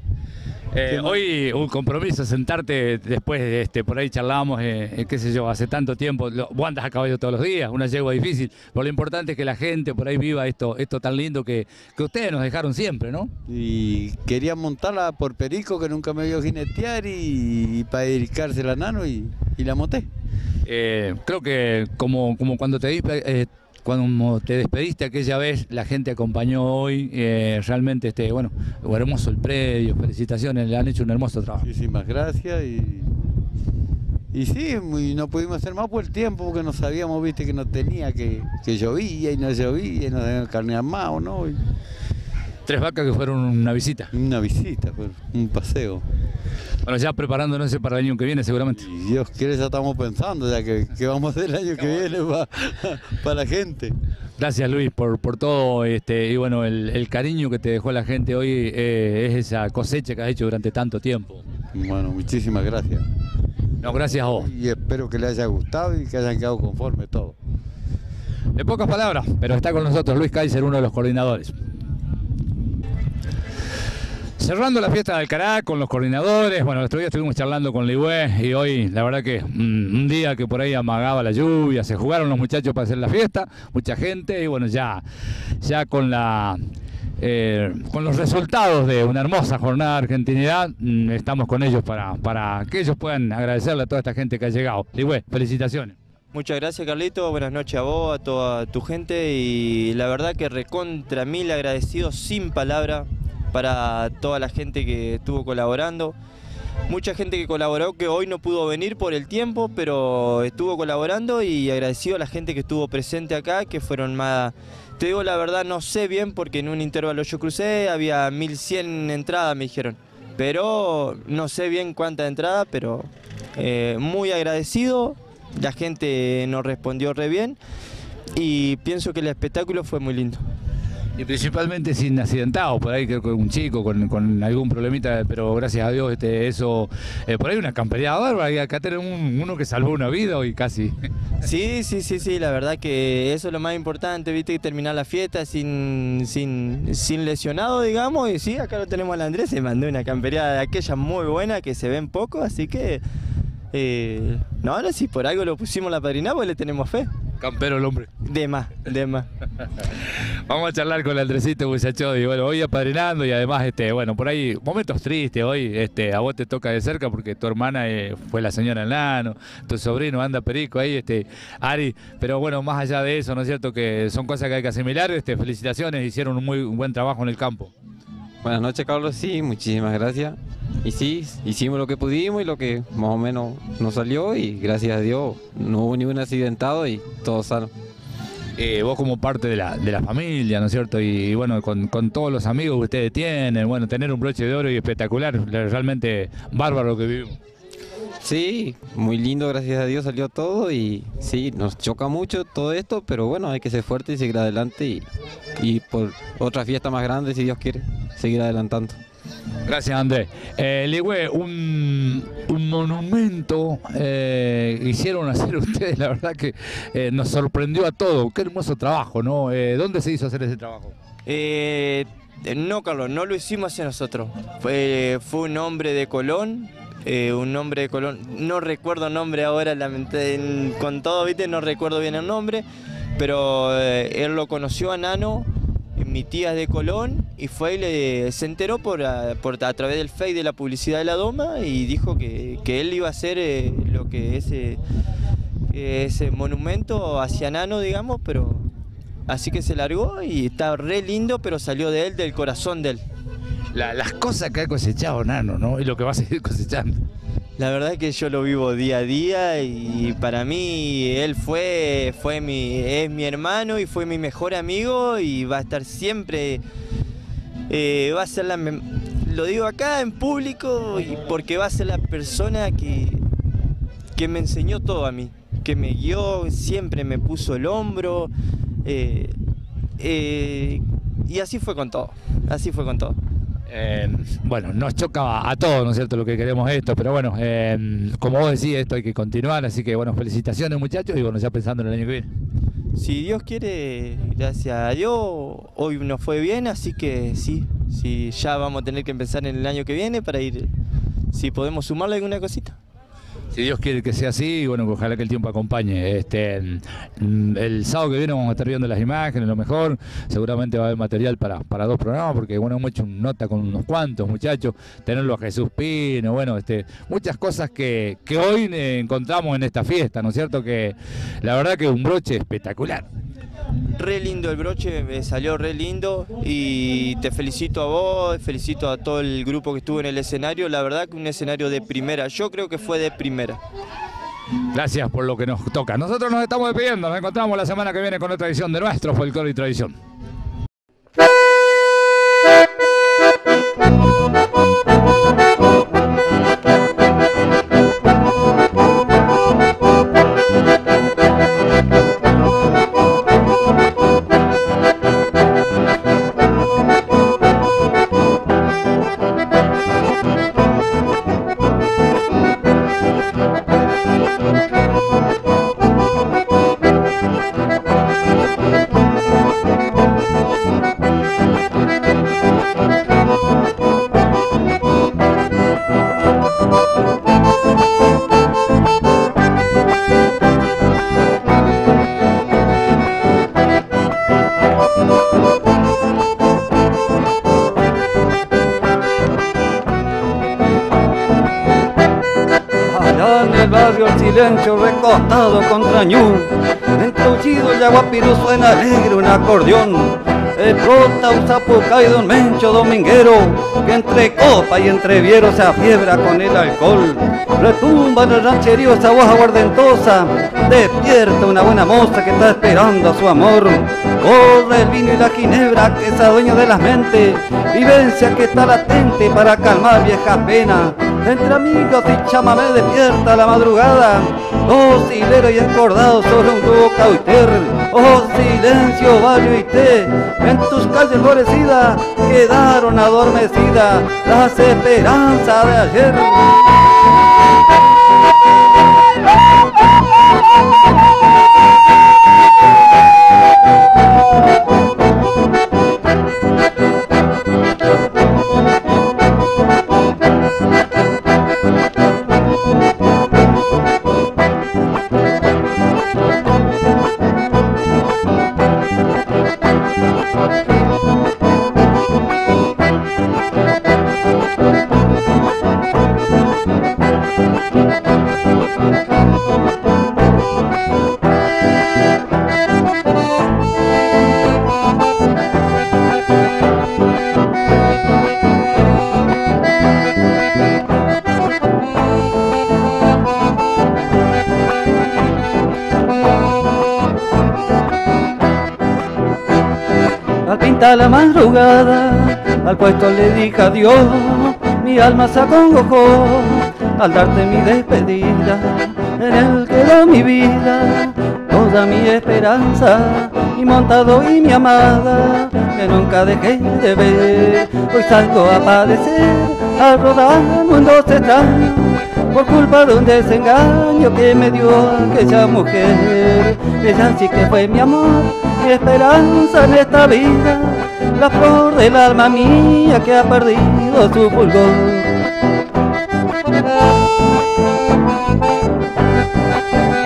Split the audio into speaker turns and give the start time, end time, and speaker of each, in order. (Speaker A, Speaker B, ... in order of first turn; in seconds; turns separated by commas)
Speaker A: 0.7-13.3, Speaker B: 0.9-1.2, Speaker B: 13.5-20.1, Speaker A: 20.7-31.7, Speaker B: 31.6-33.1, Speaker B: 34.3-41.6, Speaker A: 42.7-44.1, Speaker B: 44.1-46.0, Speaker A: 46.9-48.8, Speaker B: 48.8-53.9, Speaker A: 54.4-61.4, Speaker B: 61.7-63.0, Speaker A: 63.8-64.5, Speaker B: 63.9-67.4, Speaker A: 68.6-71.5, Speaker A: 74.4-85.0, Speaker A: 85.6-86.6, Speaker A: 87.2-96.0, Speaker C: 96.3-106.2, Speaker C: 106.9-127.6, Speaker C: 128.4-130.4, Speaker A: 131.2-141.0, Speaker C: 141.4-153.0, Speaker C: 153.7-157.1, Speaker A: 157.4-158.1, Speaker C: 158.2-159.3, Speaker A: 160.5-177.7, Speaker D: 178.4-187.7, Speaker A: 188.6-197.4, Speaker D: 198.2-205.1, Speaker D: 205.6-209.0, Speaker A: 209.7-220.9, Speaker C: 221.2-232.7, Speaker C: 233.2-244.8, Speaker C: 245.7-248.7, Speaker C: 249.3-253.0, Speaker A: 253.7-257.0, Speaker C: 257.6-266.6, Speaker C: 267.7-273.2, Speaker C: 274.1-278.3, Speaker C: 278.8-279.4, Speaker C: 280.0-283.2, Speaker A: 283.7-292.3, Speaker C: 292.9-300.7, Speaker C: 301.3-302.8, Speaker A: 303.5-323.1, Speaker C: 324.0-333.6, Speaker A: 334.7-339.9, Speaker E: 392.9-436.5, Speaker E: 490.4-525.2